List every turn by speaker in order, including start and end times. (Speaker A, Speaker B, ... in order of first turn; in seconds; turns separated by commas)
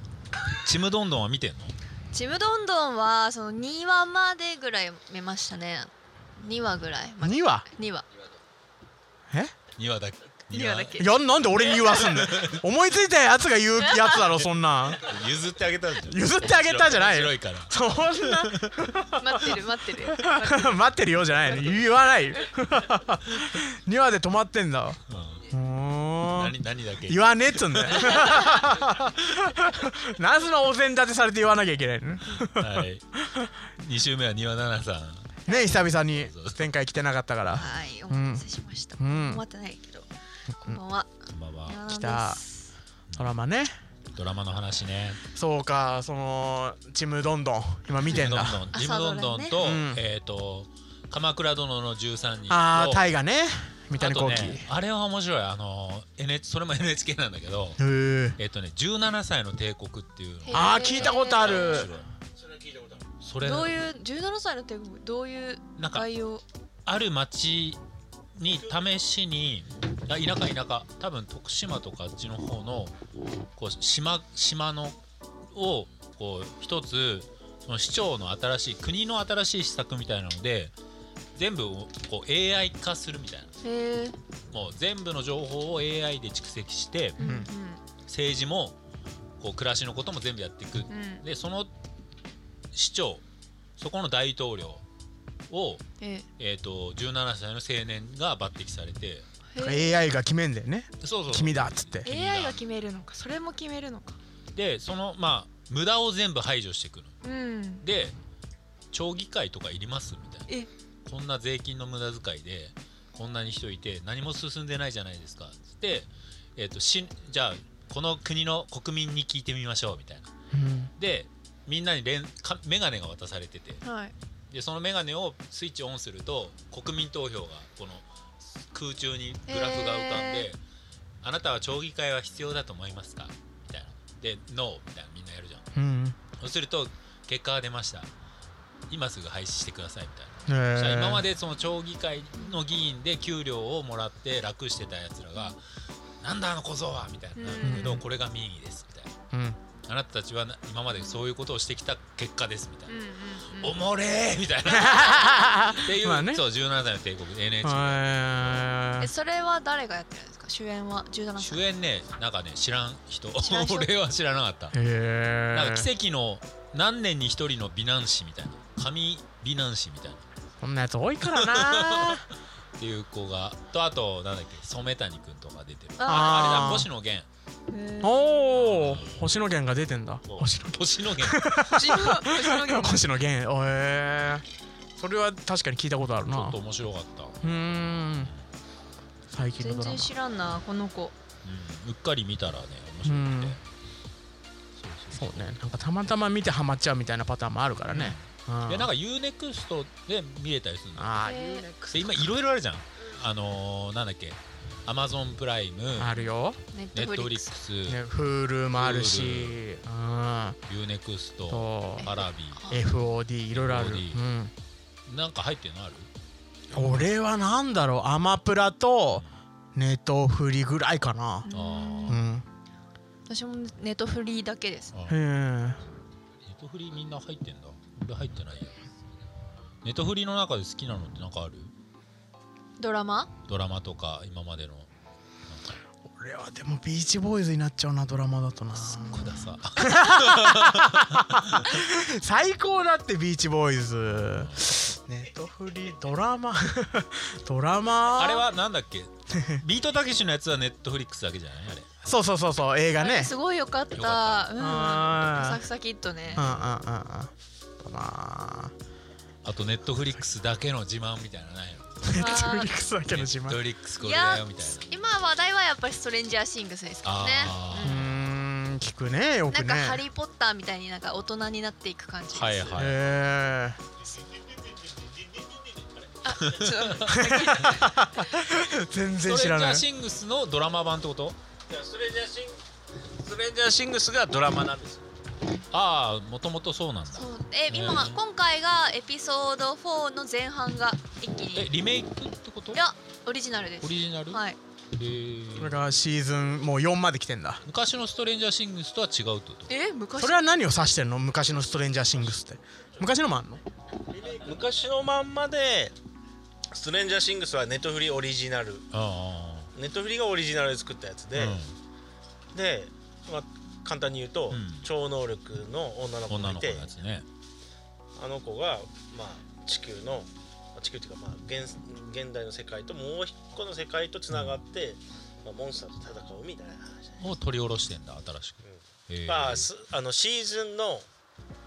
Speaker A: 0.6-1.7, Speaker B: 2.1-8.1, Speaker C: 7.2-7.7, Speaker A: 9.8-12.6, Speaker B: 10.5-11.1, Speaker C: 11.0-15.1, Speaker B: 11.7-12.1, Speaker B: 13.8-14.2, Speaker A: 15.0-18.7, Speaker C: 16.0-33.5, Speaker B: 19.2-20.9, Speaker A: 25.1-25.5, Speaker A: 26.3-28.3, Speaker A: 32.5-33.0, Speaker A: 33.7-36.6, Speaker C: 35.5-38.5, Speaker B: 35.5-35.8, Speaker B: 37.5-40.1, Speaker C: 39.0-39.5, Speaker C: 40.5-40.8, Speaker B: 40.6-42.7, Speaker A: 41.3-41.8, Speaker C: 41.9-42.4, Speaker A: 43.1-43.4, Speaker C: 43.1-43.8, Speaker A: 44.1-45.2, Speaker C: 45.3-48.7, Speaker A: 48.0-53.0, Speaker B: 48.7-49.6, Speaker C: 49.6-50.0, Speaker C: 52.5-54.7, Speaker A: 54.0-57.8, Speaker C: 57.8-58.4, Speaker A: 58.4-62.1, Speaker B: 60.5-61.9, Speaker C: 60.5-62.0, Speaker D: 62.4-63.1, Speaker A: 63.2-63.8, Speaker B: 63.4-66.4, Speaker A: 65.8-66.1, Speaker A: 66.8-67.8, Speaker A: 68.4-73.0, Speaker A: 73.6-75.0, Speaker A: 75.5-80.7, Speaker A: 81.3-83.5, Speaker B: 83.6-84.2, Speaker A: 84.5-87.2, Speaker B: 87.2-87.8, Speaker C: 87.2-87.5, Speaker A: 88.0-88.8, Speaker A: 89.4-91.7, Speaker B: 90.9-91.2, Speaker A: 92.7-93.2, Speaker A: 93.8-94.8, Speaker A: 95.5-95.8, Speaker B: 96.0-96.3, Speaker A: 96.4-99.3, Speaker B: 99.5-100.0, Speaker C: 99.6-102.1, Speaker A: 101.0-102.6, Speaker B: 102.0-104.2, Speaker A: 104.5-107.1, Speaker B: 107.2-107.9, Speaker A: 107.8-108.2, Speaker A: 108.9-110.5, Speaker A: 111.1-120.3, Speaker C: 120.5-120.9, Speaker A: 121.0-123.8, Speaker B: 123.8-124.1, Speaker A: 124.5-128.1, Speaker A: 128.7-130.6, Speaker B: 129.5-130.5, Speaker A: 131.2-135.7, Speaker C: 135.8-136.2, Speaker A: 136.4-138.1, Speaker A: 138.9-145.6, Speaker C: 140.5-141.2, Speaker A: 146.2-149.1, Speaker B: 147.4-148.0, Speaker C: 147.6-148.0, Speaker C: 149.3-149.6, Speaker A: 149.8-152.9, Speaker B: 152.9-153.8, Speaker A: 153.5-158.0, Speaker C: 154.7-156.4, Speaker B: 154.8-155.4, Speaker C: 157.6-159.1, Speaker B: 159.0-161.6, Speaker A: 161.4-164.8, Speaker B: 163.4-163.9, Speaker C: 164.7-165.9, Speaker A: 165.5-170.2, Speaker C: 170.6-172.3, Speaker A: 171.3-177.3, Speaker B: 176.0-176.8, Speaker C: 176.1-176.9, Speaker B: 177.7-178.2, Speaker C: 178.0-184.4, Speaker A: 178.5-179.2, Speaker A: 180.3-181.5, Speaker B: 181.7-183.1, Speaker C: 185.0-186.6, Speaker A: 186.2-187.6, Speaker C: 187.4-188.3, Speaker C: 189.3-190.1, Speaker B: 189.6-191.2, Speaker A: 191.4-193.6, Speaker C: 193.1-193.6, Speaker A: 194.8-195.5, Speaker C: 195.1-198.9, Speaker A: 197.9-201.2, Speaker C: 201.0-202.3, Speaker B: 201.2-201.7, Speaker A: 201.9-206.2, Speaker C: 206.0-206.6, Speaker B: 206.7-207.6, Speaker A: 206.9-208.0, Speaker C: 207.9-210.6, Speaker A: 208.7-209.6, Speaker A: 210.7-212.6, Speaker C: 211.5-212.1, Speaker B: 212.0-213.0, Speaker C: 212.7-214.5, Speaker A: 213.5-214.2, Speaker A: 215.1-216.1, Speaker C: 216.7-221.5, Speaker B: 221.5-222.2, Speaker A: 221.5-222.2, Speaker C: 222.1-222.5, Speaker B: 223.3-224.9, Speaker A: 224.9-225.2, Speaker C: 225.1-225.8, Speaker A: 226.4-228.8, Speaker A: 229.8-231.7, Speaker B: 232.8-233.3, Speaker A: 233.4-234.9, Speaker A: 235.5-235.8, Speaker C: 236.1-248.5, Speaker A: 238.8-241.7, Speaker A: 244.3-244.6, Speaker A: 248.2-251.9, Speaker C: 249.3-249.6, Speaker C: 252.0-253.3, Speaker B: 253.0-256.4, Speaker A: 253.9-254.5, Speaker C: 254.6-255.6, Speaker A: 256.3-256.6, Speaker C: 256.3-258.7, Speaker A: 259.4-262.0, Speaker C: 262.0-263.6, Speaker B: 262.2-262.8, Speaker A: 263.1-264.9, Speaker B: 264.0-268.1, Speaker A: 267.0-268.3, Speaker C: 267.8-270.0, Speaker B: 269.5-272.9, Speaker A: 272.3-273.1, Speaker C: 272.8-273.8, Speaker D: 275.0-275.5, Speaker B: 276.2-278.0, Speaker A: 276.4-277.1, Speaker C: 277.1-279.9, Speaker A: 279.2-281.4, Speaker D: 281.7-285.1, Speaker A: 285.7-288.2, Speaker B: 287.1-291.7, Speaker A: 291.6-292.8, Speaker B: 292.7-294.6, Speaker A: 293.8-294.4, Speaker A: 294.9-295.8, Speaker C: 295.6-297.6, Speaker A: 297.7-299.7, Speaker B: 299.7-300.5, Speaker C: 300.2-303.6, Speaker D: 304.1-306.0, Speaker D: 306.7-308.9, Speaker A: 308.9-309.7, Speaker D: 309.8-311.6, Speaker A: 311.4-311.8, Speaker D: 312.5-317.0, Speaker A: 314.5-314.9, Speaker A: 316.3-317.3, Speaker D: 318.2-327.2, Speaker A: 324.3-324.6, Speaker A: 327.2-329.7, Speaker D: 328.6-331.1